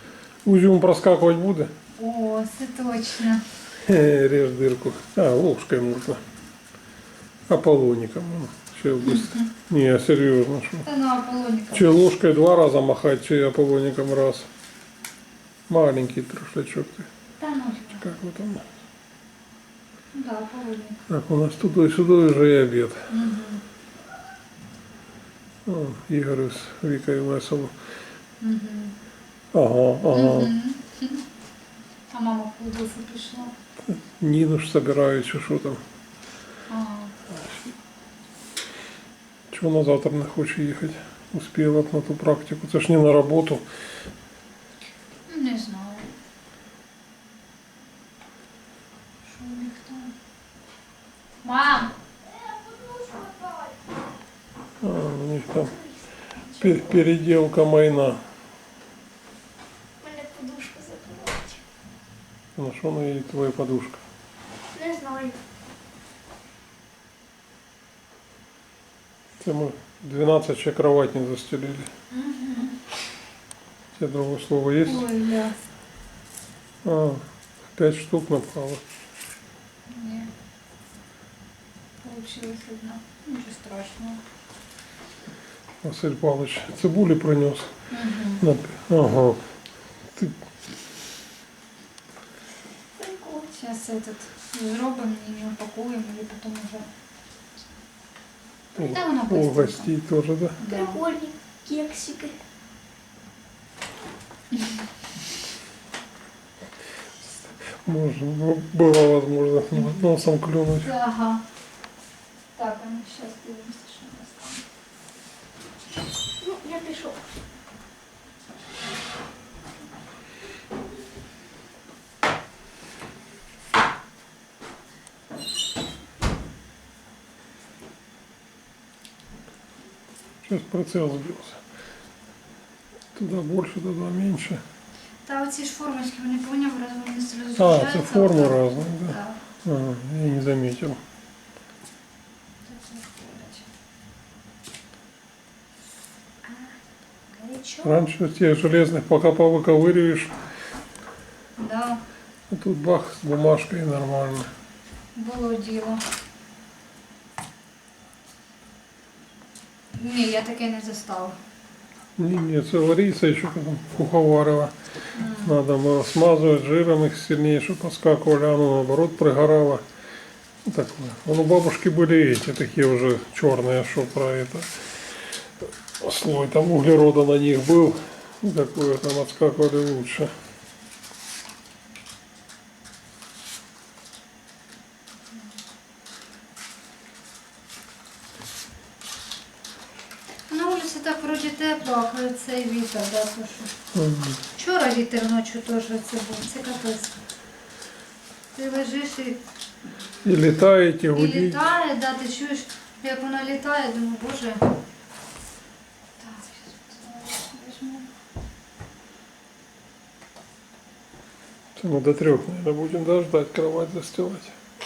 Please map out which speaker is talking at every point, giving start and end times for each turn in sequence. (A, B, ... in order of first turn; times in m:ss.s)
0:00.4-0:01.7 A
0:02.0-0:03.4 B
0:03.8-0:06.2 A
0:07.5-0:10.8 A
0:09.0-0:09.5 B
0:10.8-0:11.9 B
0:11.7-0:14.5 A
0:15.7-0:17.1 A
0:17.4-0:18.0 B
0:18.0-0:18.7 A
0:20.1-0:21.0 B
0:21.1-0:23.1 A
0:23.1-0:23.6 B
0:25.6-0:27.7 A
0:28.4-0:28.9 B
0:29.5-0:30.5 A
0:30.1-0:31.2 B
0:32.1-0:33.5 B
0:33.8-0:35.8 A
0:36.7-0:37.1 B
0:39.5-0:43.6 A
0:45.3-0:46.1 B
0:49.2-0:50.1 B
0:51.4-0:51.9 B
0:52.3-0:53.7 C
0:54.8-0:55.7 A
0:56.4-0:57.0 C
0:56.6-0:58.2 A
1:00.0-1:01.6 C
1:02.6-1:04.0 A
1:04.7-1:05.4 C
1:09.4-1:11.9 A
1:12.1-1:12.8 B
1:13.9-1:15.0 A
1:14.8-1:15.6 B
1:16.8-1:18.8 A
1:19.9-1:20.3 B
1:22.0-1:24.2 B
1:25.8-1:27.7 A
1:27.9-1:28.4 B
1:28.4-1:29.4 A
1:33.0-1:33.5 C
1:33.4-1:36.9 B
1:38.7-1:40.6 A
1:38.8-1:39.9 B
1:40.6-1:41.0 B
1:40.6-1:42.3 C
1:47.2-1:50.9 A
1:50.8-1:51.4 B
1:52.6-1:54.6 B
1:56.4-1:57.2 C
2:10.4-2:11.6 A
2:13.1-2:14.6 A
2:15.2-2:19.4 B
2:17.6-2:21.0 A
2:22.6-2:23.6 B
2:27.3-2:28.0 B
2:27.8-2:30.3 A
2:31.6-2:32.0 B
2:32.5-2:34.5 A
2:35.1-2:36.0 B
2:40.0-2:41.4 B
2:42.2-2:49.8 A
2:45.1-2:45.6 B
2:50.6-2:55.1 A
2:55.6-3:00.3 A
3:10.5-3:13.7 B
3:13.9-3:14.4 A
3:14.5-3:17.1 B
3:18.5-3:19.4 B
3:20.2-3:21.6 A
3:21.1-3:24.6 B
3:26.2-3:28.1 B
3:31.8-3:34.5 A